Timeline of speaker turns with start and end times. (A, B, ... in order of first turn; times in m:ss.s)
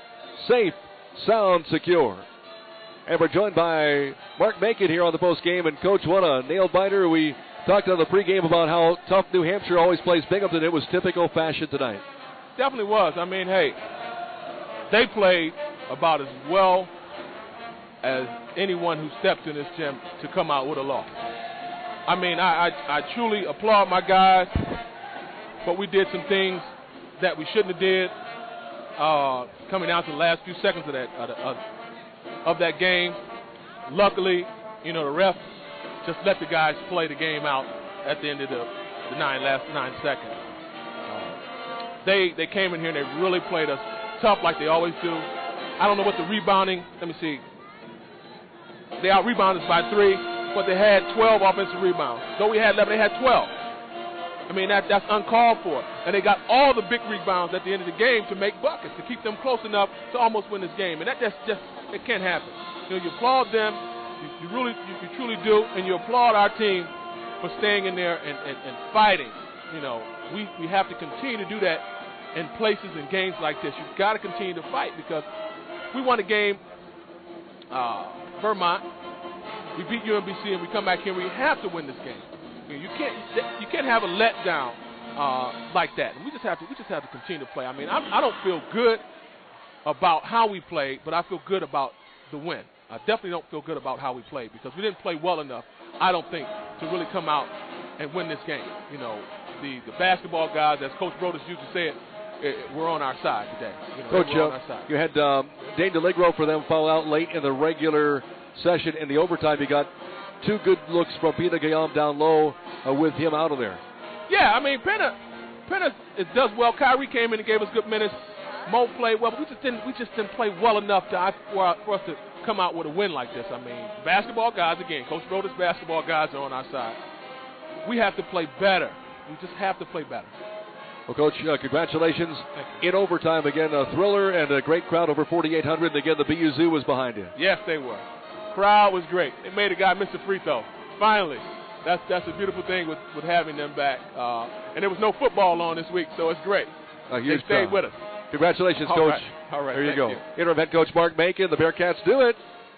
0:00.4-0:02.3 A
0:03.0-0:12.0 A
0:12.6-0:13.8 B
0:14.9-0:16.9 B
0:18.0-0:21.1 B
0:22.1-0:24.7 B
0:25.6-0:28.1 B
0:29.0-0:31.6 B
0:32.4-0:33.2 B
0:33.8-0:35.4 B
0:36.0-0:40.5 B
0:41.1-0:41.4 B
0:42.0-0:47.4 B
0:49.0-0:53.5 B
0:54.5-1:11.8 B
1:12.3-1:15.2 B
1:15.9-1:16.6 B
1:17.7-1:18.8 B
1:19.7-1:29.0 B
1:29.8-1:44.9 B
1:44.1-1:49.9 A
1:50.4-1:53.8 A
1:54.3-1:55.2 B
1:55.7-2:07.0 B
2:07.8-2:10.3 B
2:11.1-2:17.3 A
2:17.4-2:28.0 B
2:27.1-2:32.4 A
2:28.8-2:30.2 B